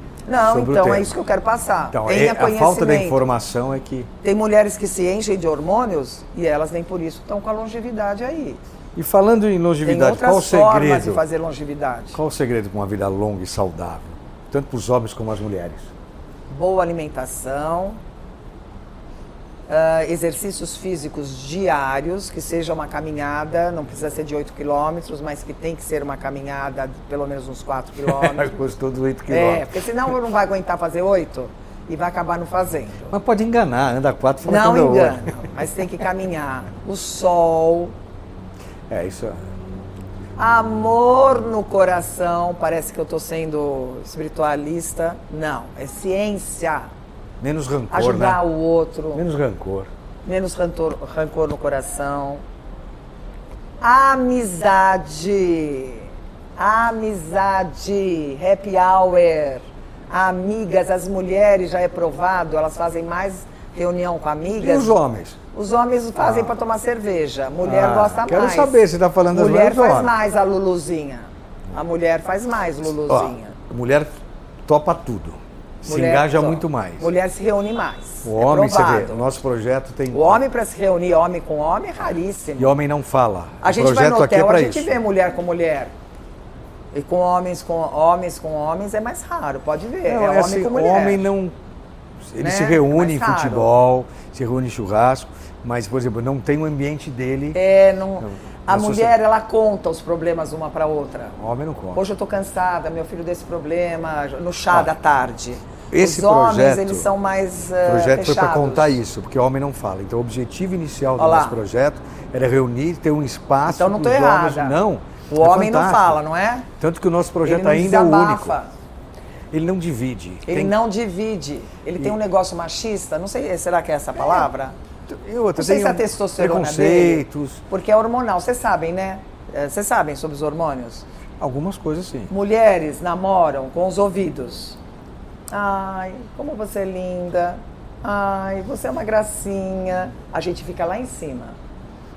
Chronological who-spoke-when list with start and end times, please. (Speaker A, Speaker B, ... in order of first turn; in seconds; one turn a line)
Speaker A: 0.3-3.2
Speaker B: 0.4-1.1
Speaker B: 1.9-4.1
Speaker A: 4.2-8.6
Speaker B: 8.9-11.2
Speaker A: 9.8-12.2
Speaker B: 12.1-15.9
Speaker A: 16.5-18.0
Speaker A: 19.7-28.6
Speaker B: 28.0-29.7
Speaker A: 29.3-33.1
Speaker B: 33.1-35.5
Speaker A: 34.4-38.0
Speaker B: 38.9-39.4
Speaker A: 40.4-46.9
Speaker B: 47.4-48.4
Speaker A: 47.9-49.2
Speaker B: 49.1-49.9
Speaker A: 50.2-52.4
Speaker A: 53.8-65.0
Speaker B: 64.6-65.4
Speaker A: 65.5-68.8
Speaker B: 66.2-66.5
Speaker B: 67.6-70.1
Speaker A: 69.3-73.6
Speaker B: 73.1-74.1
Speaker B: 74.7-77.1
Speaker A: 75.9-79.3
Speaker B: 78.2-80.4
Speaker A: 80.1-82.8
Speaker B: 82.6-85.0
Speaker A: 83.6-85.9
Speaker A: 86.9-91.2
Speaker B: 90.1-91.5
Speaker B: 92.3-97.6
Speaker A: 92.4-93.7
Speaker A: 97.5-101.4
Speaker B: 98.2-99.1
Speaker B: 101.4-102.0
Speaker A: 102.0-109.0
Speaker B: 105.9-107.1
Speaker B: 107.8-116.2
Speaker A: 111.2-111.6
Speaker A: 113.7-114.8
Speaker A: 115.3-116.7
Speaker B: 116.8-118.6
Speaker A: 117.4-118.7
Speaker B: 119.5-120.8
Speaker A: 120.5-124.8
Speaker B: 125.1-127.6
Speaker A: 125.6-131.1
Speaker B: 131.4-132.3
Speaker A: 132.3-134.8
Speaker A: 135.5-141.6